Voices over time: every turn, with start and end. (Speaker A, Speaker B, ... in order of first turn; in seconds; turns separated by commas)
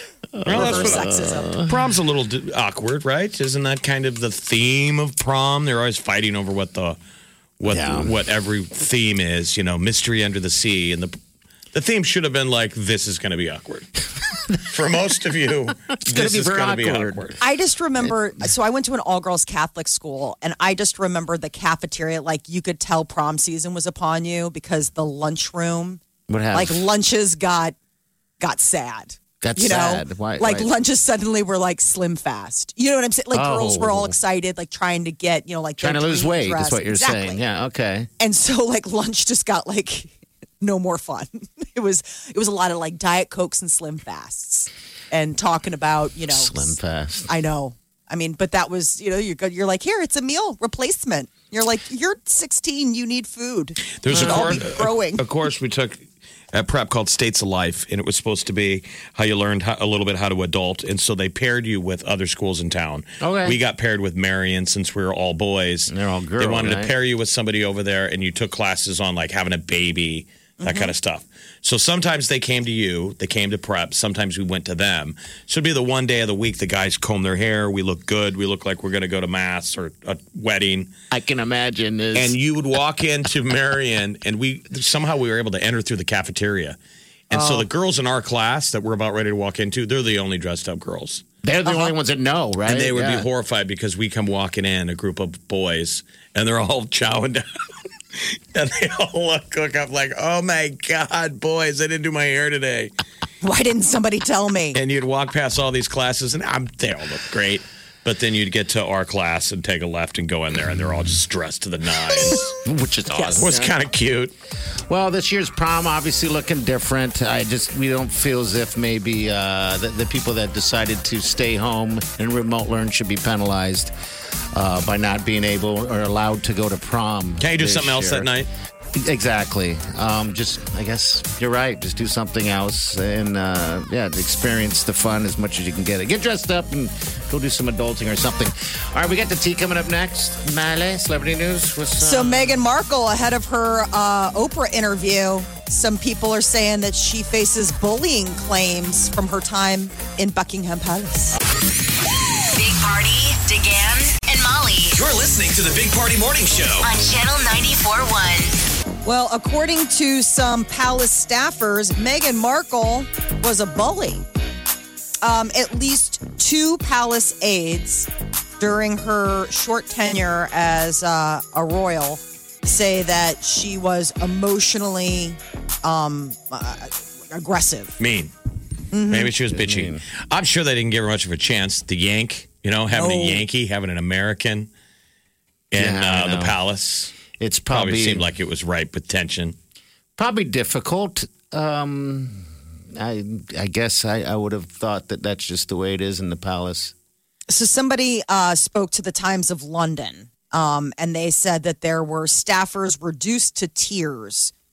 Speaker A: 0.3-1.8, Speaker B: 0.5-1.1, Speaker C: 0.5-1.6, Speaker B: 1.6-7.0, Speaker B: 7.6-11.2, Speaker A: 7.7-8.1, Speaker B: 11.7-13.9, Speaker B: 14.5-17.4, Speaker A: 16.0-17.4, Speaker C: 17.4-26.0, Speaker A: 26.3-26.9, Speaker C: 26.5-27.8, Speaker C: 28.4-37.4, Speaker A: 29.4-30.7, Speaker A: 33.3-34.2, Speaker A: 35.8-38.1, Speaker C: 38.2-46.8, Speaker A: 46.3-47.3, Speaker C: 47.3-55.2, Speaker B: 54.0-80.9, Speaker A: 54.1-54.6, Speaker A: 63.2-63.6, Speaker A: 65.9-66.9, Speaker C: 70.6-70.9, Speaker A: 81.1-82.4, Speaker B: 82.1-86.8, Speaker B: 87.3-91.2, Speaker C: 87.3-87.7, Speaker A: 91.4-93.3, Speaker B: 92.7-97.6, Speaker B: 98.2-102.9, Speaker C: 103.4-104.8, Speaker B: 104.7-112.5, Speaker A: 112.6-113.7, Speaker C: 113.2-113.4, Speaker B: 113.4-114.3, Speaker A: 114.9-123.9, Speaker A: 124.5-128.3, Speaker B: 127.4-128.5, Speaker A: 128.9-142.6, Speaker C: 142.0-151.3, Speaker D: 152.5-155.0, Speaker E: 154.9-156.9, Speaker D: 156.8-158.6, Speaker C: 159.1-164.2, Speaker C: 165.2-168.1, Speaker C: 168.6-178.0, Speaker B: 178.0-178.3, Speaker C: 178.9-179.3, Speaker B: 179.1-184.7, Speaker A: 179.5-180.0, Speaker C: 182.9-183.4, Speaker B: 185.7-187.2, Speaker A: 185.8-186.6, Speaker A: 187.3-188.3, Speaker B: 187.7-189.6, Speaker A: 190.2-196.9, Speaker C: 197.5-204.5